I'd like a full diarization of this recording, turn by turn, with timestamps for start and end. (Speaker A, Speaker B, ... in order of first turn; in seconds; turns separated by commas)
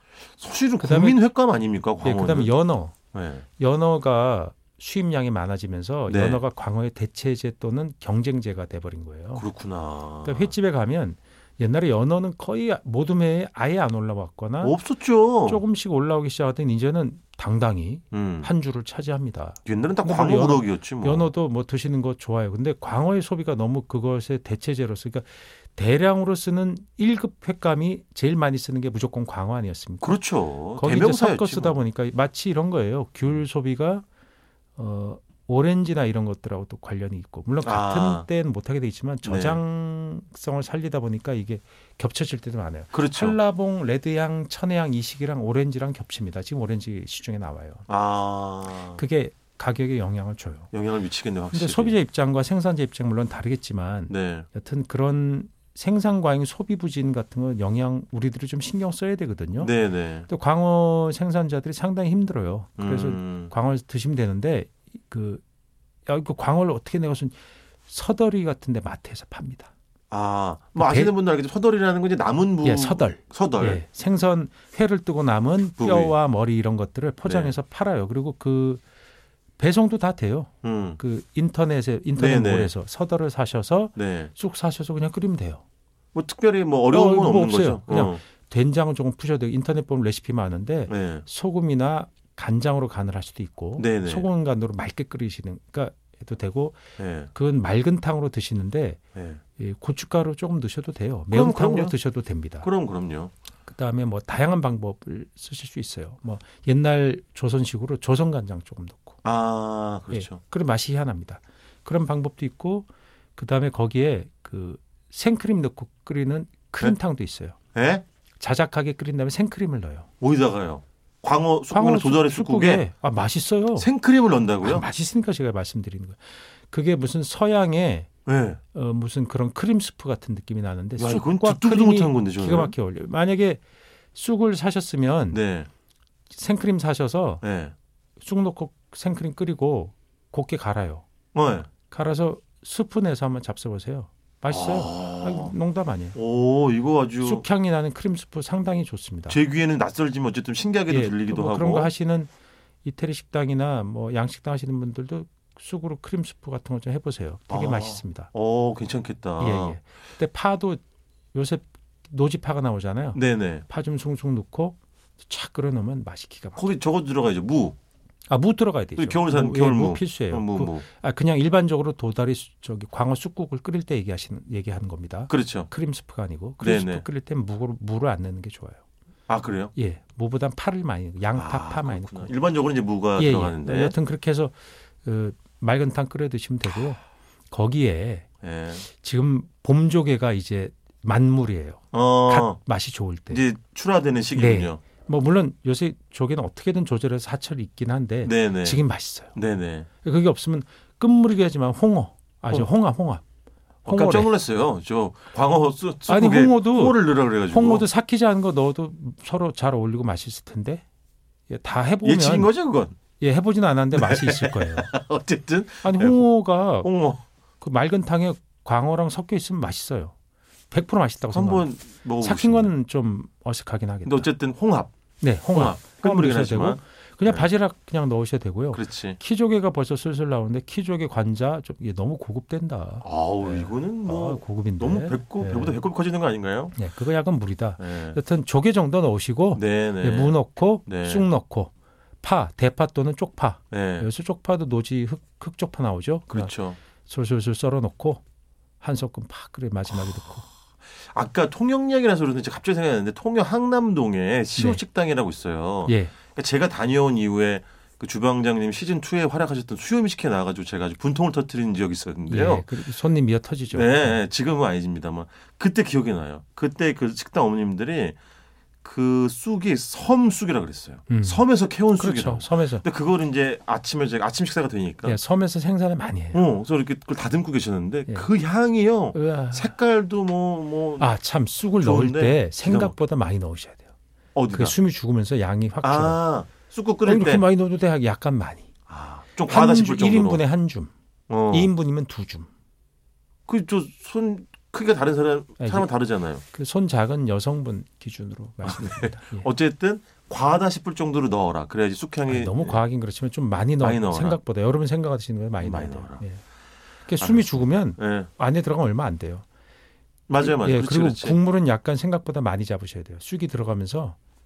Speaker A: 0.4-2.5, Speaker B: 0.8-1.2, Speaker B: 2.0-3.0, Speaker A: 3.1-3.4, Speaker B: 3.6-9.4, Speaker A: 6.1-6.4, Speaker A: 9.3-10.5, Speaker B: 10.2-14.8, Speaker A: 14.6-15.6, Speaker B: 15.4-30.1, Speaker A: 18.1-18.5, Speaker A: 19.6-21.3, Speaker A: 30.0-31.8, Speaker B: 30.8-34.0, Speaker B: 34.8-47.9, Speaker A: 37.6-38.3, Speaker A: 39.2-39.6, Speaker A: 42.9-43.4, Speaker A: 47.9-49.0, Speaker B: 48.9-50.7, Speaker A: 50.7-52.0, Speaker B: 51.5-59.7, Speaker A: 54.1-54.5, Speaker A: 59.6-60.3, Speaker B: 60.3-65.4, Speaker A: 62.8-63.5, Speaker B: 66.0-69.7, Speaker A: 70.1-73.8, Speaker B: 70.7-71.1, Speaker B: 72.6-78.8, Speaker A: 75.8-76.1, Speaker A: 77.2-77.5, Speaker B: 79.6-85.6, Speaker A: 80.6-81.0, Speaker A: 82.2-82.7, Speaker A: 84.0-84.3, Speaker A: 86.1-88.2, Speaker B: 86.9-99.0, Speaker A: 90.9-91.2, Speaker A: 93.8-94.3, Speaker A: 97.0-97.3, Speaker A: 99.1-99.4, Speaker B: 99.6-102.7, Speaker A: 101.3-102.0, Speaker A: 102.6-103.3, Speaker B: 103.7-109.2, Speaker A: 109.2-110.4, Speaker B: 110.1-117.6, Speaker A: 117.7-118.0, Speaker B: 118.4-120.1, Speaker A: 120.2-122.8, Speaker B: 121.7-123.9, Speaker A: 123.8-124.8, Speaker B: 124.6-128.1, Speaker A: 128.2-128.6, Speaker B: 128.7-133.6, Speaker A: 131.0-132.8, Speaker B: 134.1-135.4, Speaker A: 135.3-135.7, Speaker B: 136.3-137.4, Speaker A: 137.4-137.7, Speaker B: 138.2-141.0, Speaker A: 141.3-141.7, Speaker B: 141.9-146.2, Speaker A: 144.5-145.5, Speaker A: 146.1-147.4, Speaker B: 147.2-149.4, Speaker A: 149.3-151.9, Speaker B: 150.9-152.3, Speaker B: 152.8-158.3, Speaker A: 157.5-159.8, Speaker B: 159.4-160.8, Speaker B: 161.3-166.7, Speaker A: 163.1-163.6, Speaker A: 166.6-167.8, Speaker B: 168.3-178.8, Speaker A: 169.0-170.8, Speaker A: 175.3-175.7, Speaker A: 176.6-177.0, Speaker A: 179.3-179.7, Speaker B: 179.7-182.3, Speaker A: 181.3-183.9, Speaker B: 183.2-188.3, Speaker A: 188.4-188.8, Speaker B: 188.8-193.4, Speaker A: 191.9-192.6, Speaker A: 193.3-194.8, Speaker B: 194.3-199.3, Speaker A: 198.2-199.9, Speaker B: 200.0-203.2, Speaker B: 203.8-204.3, Speaker A: 203.8-207.8, Speaker B: 206.1-210.8, Speaker B: 211.5-212.5, Speaker A: 212.0-213.0, Speaker B: 213.2-214.9, Speaker A: 213.9-217.2, Speaker B: 215.8-216.9, Speaker B: 217.6-220.1, Speaker B: 220.7-224.3, Speaker A: 221.3-222.7, Speaker A: 224.0-224.9, Speaker B: 225.2-235.8, Speaker A: 225.5-227.5, Speaker A: 228.7-229.2, Speaker A: 233.0-236.8, Speaker B: 236.7-241.7, Speaker A: 237.8-238.2, Speaker A: 239.5-241.3, Speaker B: 242.2-248.2, Speaker A: 243.7-244.1, Speaker A: 246.3-246.8, Speaker B: 248.8-250.5, Speaker A: 251.0-262.7, Speaker B: 254.6-254.8, Speaker B: 255.8-256.1, Speaker B: 262.3-264.2, Speaker A: 263.7-268.1, Speaker A: 268.8-275.2, Speaker B: 271.1-272.8, Speaker B: 275.0-276.4, Speaker A: 276.3-281.1, Speaker B: 279.1-279.7, Speaker B: 281.0-283.8, Speaker A: 281.8-282.9, Speaker A: 284.3-284.8, Speaker B: 284.5-286.2, Speaker A: 285.8-287.4, Speaker B: 287.0-288.7, Speaker A: 288.9-290.4, Speaker B: 289.4-290.9, Speaker A: 291.3-291.7, Speaker B: 291.5-292.5, Speaker A: 293.5-296.4, Speaker B: 295.6-299.5, Speaker A: 298.6-302.8, Speaker B: 302.3-306.4, Speaker A: 303.8-304.4, Speaker A: 305.6-306.2, Speaker B: 307.1-309.4, Speaker A: 307.2-308.3, Speaker A: 310.3-311.4, Speaker B: 310.4-314.2